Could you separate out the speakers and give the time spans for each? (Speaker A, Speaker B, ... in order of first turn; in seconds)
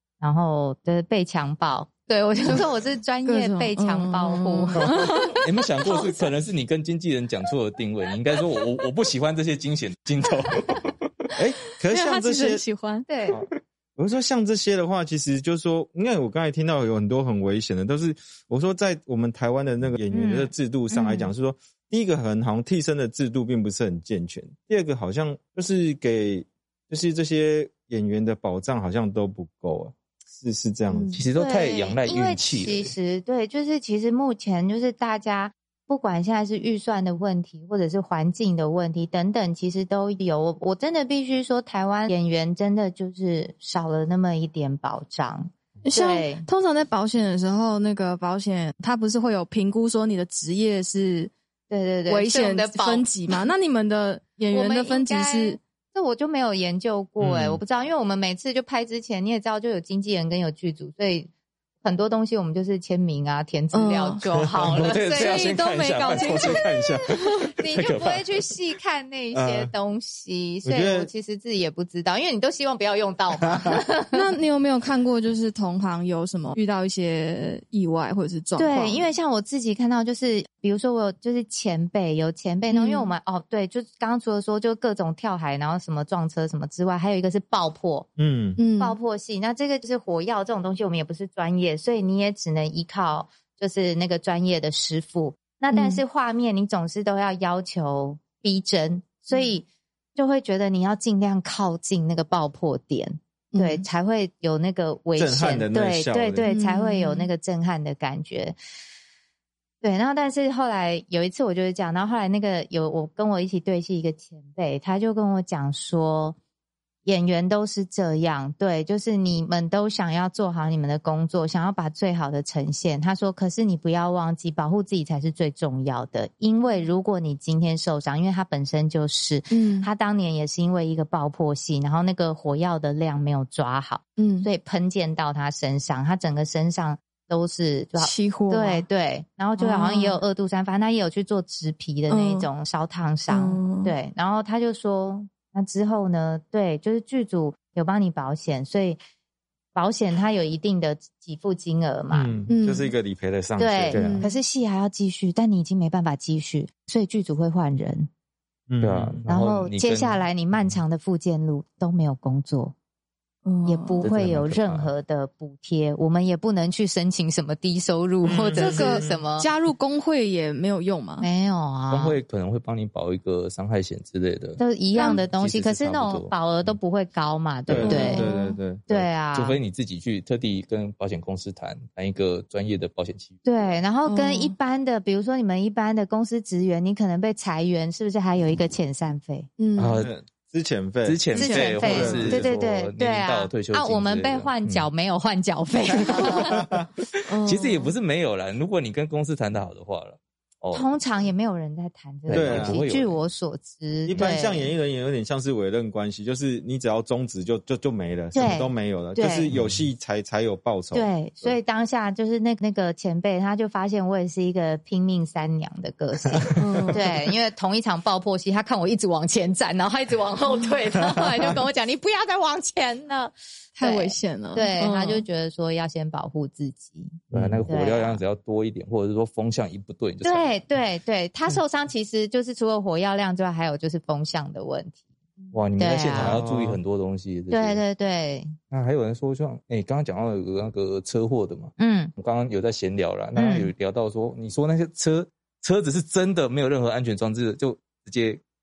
Speaker A: 0.2-5.3, 13.1-13.4, 20.1-20.5, 31.3-46.5, 51.7-53.1, 54.5-61.3, 61.8-65.5, 67.6-74.2, 78.6-88.1, 88.8-108.5, 109.8-116.4, 117.0-149.0, 149.7-152.3, 153.6-158.1, 159.3-162.7, 163.7-169.5, 171.2-172.2, 174.6-178.3, 178.9-179.6, 183.4-189.5, 191.3-196.7, 200.7-204.7, 208.3-209.5, 210.9-228.2, 230.2-236.4, 237.5-238.5, 241.8-242.1, 243.3-243.7
Speaker B: 3.2-5.3, 11.9-13.1, 20.9-21.3, 30.9-31.2, 45.9-51.3, 52.0-55.6, 63.7-64.3, 65.1-67.2, 74.1-79.1, 82.7-83.1, 88.6-89.0, 95.7-96.0, 103.5-103.8, 106.4-107.3, 129.5-129.9, 134.2-134.5, 138.0-138.8, 139.6-140.2, 142.1-142.5, 143.3-143.9, 152.5-152.9, 154.0-154.4, 163.4-164.1, 168.5-171.3, 174.9-175.2, 177.8-178.6, 184.0-184.5, 189.6-190.1, 197.3-197.9, 216.6-217.0, 223.8-225.2
Speaker C: 5.4-10.9, 31.1-32.9, 64.7-68.3, 153.9-154.2, 158.8-160.2, 164.0-164.9, 171.9-176.7, 177.7-178.0, 178.9-183.7, 189.8-190.1, 191.0-194.9, 197.4-200.9, 202.3-203.2, 204.1-204.4, 209.5-209.8, 227.3-230.5, 235.5-237.8, 238.7-248.4
Speaker D: 11.4-12.6, 13.3-31.2, 57.2-57.6, 69.3-69.7, 70.6-71.1, 88.2-88.6, 105.2-106.5, 152.1-154.1, 158.7-159.2, 168.2-169.2, 177.7-178.9, 190.0-192.5, 196.1-196.9, 202.3-202.9, 204.1-211.6, 227.3-227.6, 236.1-236.8